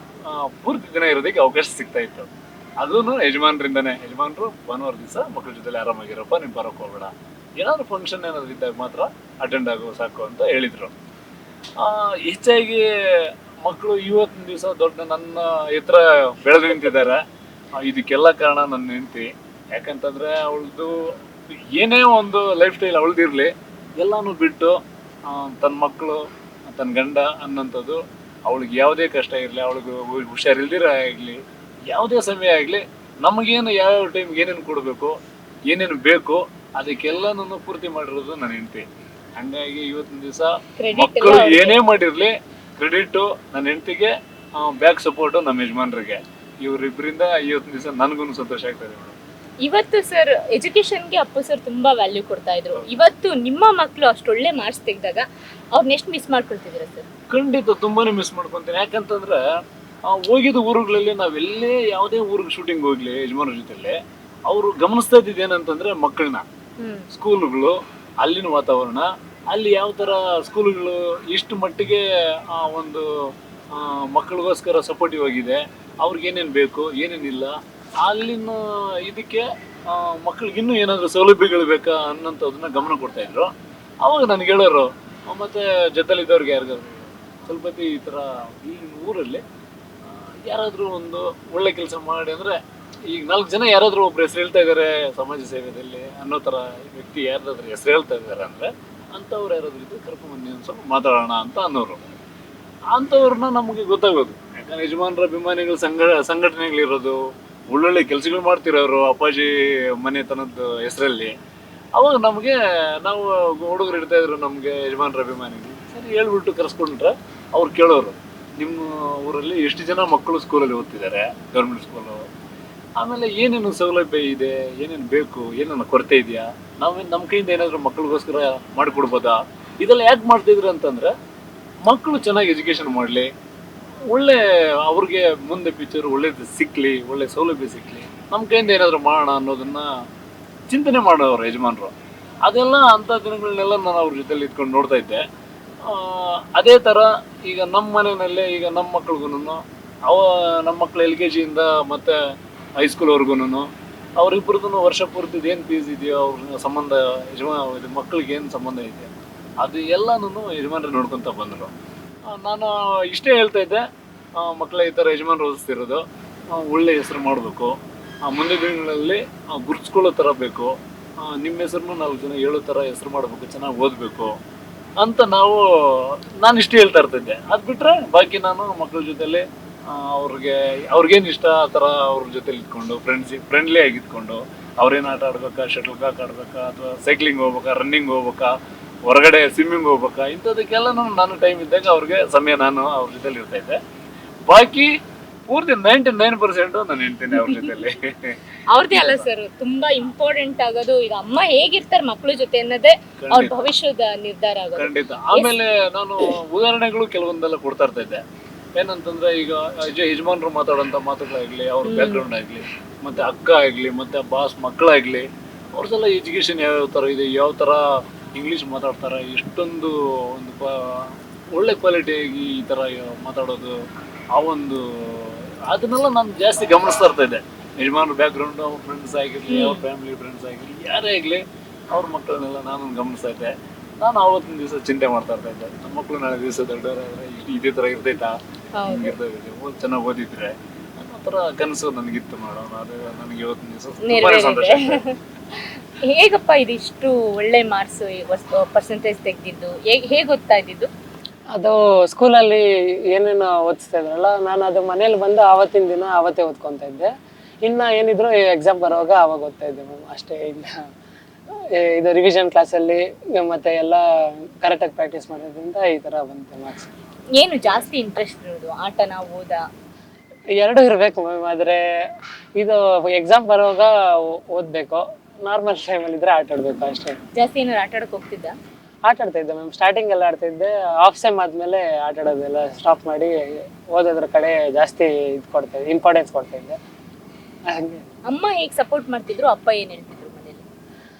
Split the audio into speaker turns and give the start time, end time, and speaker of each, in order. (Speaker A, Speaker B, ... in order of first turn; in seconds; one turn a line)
Speaker A: 0.2-10.9
Speaker A: 11.8-17.2
Speaker A: 17.8-20.9
Speaker A: 21.7-31.4
Speaker A: 31.9-35.1
Speaker A: 35.7-38.9
Speaker A: 39.4-49.2
Speaker B: 40.8-41.8
Speaker B: 49.6-57.0
Speaker A: 57.3-59.4
Speaker A: 60.0-64.0
Speaker A: 64.5-66.4
Speaker B: 66.8-67.1
Speaker A: 67.1-73.1
Speaker A: 73.7-89.4
Speaker A: 90.1-102.0
Speaker A: 102.9-107.2
Speaker A: 107.7-111.3
Speaker A: 111.9-122.2
Speaker A: 123.0-131.1
Speaker A: 131.8-133.3
Speaker A: 134.1-139.8
Speaker A: 140.7-145.2
Speaker A: 145.8-152.2
Speaker A: 152.8-153.7
Speaker A: 154.2-161.7
Speaker A: 162.3-163.8
Speaker A: 164.4-174.3
Speaker A: 175.0-188.5
Speaker A: 189.0-193.8
Speaker A: 194.5-194.9
Speaker A: 195.5-198.4
Speaker B: 197.3-197.7
Speaker B: 198.7-205.5
Speaker A: 198.9-199.2
Speaker A: 203.2-203.6
Speaker A: 204.8-208.2
Speaker A: 208.8-217.8
Speaker B: 211.8-212.2
Speaker A: 218.3-223.7
Speaker A: 224.3-245.0
Speaker B: 229.5-229.8
Speaker B: 238.8-239.2
Speaker B: 244.0-250.9
Speaker C: 251.5-257.1
Speaker C: 257.6-260.8
Speaker C: 261.7-266.9
Speaker B: 267.4-269.6
Speaker C: 270.6-271.8
Speaker C: 272.6-277.2
Speaker B: 277.4-278.5
Speaker C: 279.1-286.8
Speaker C: 287.7-288.0
Speaker B: 288.3-290.6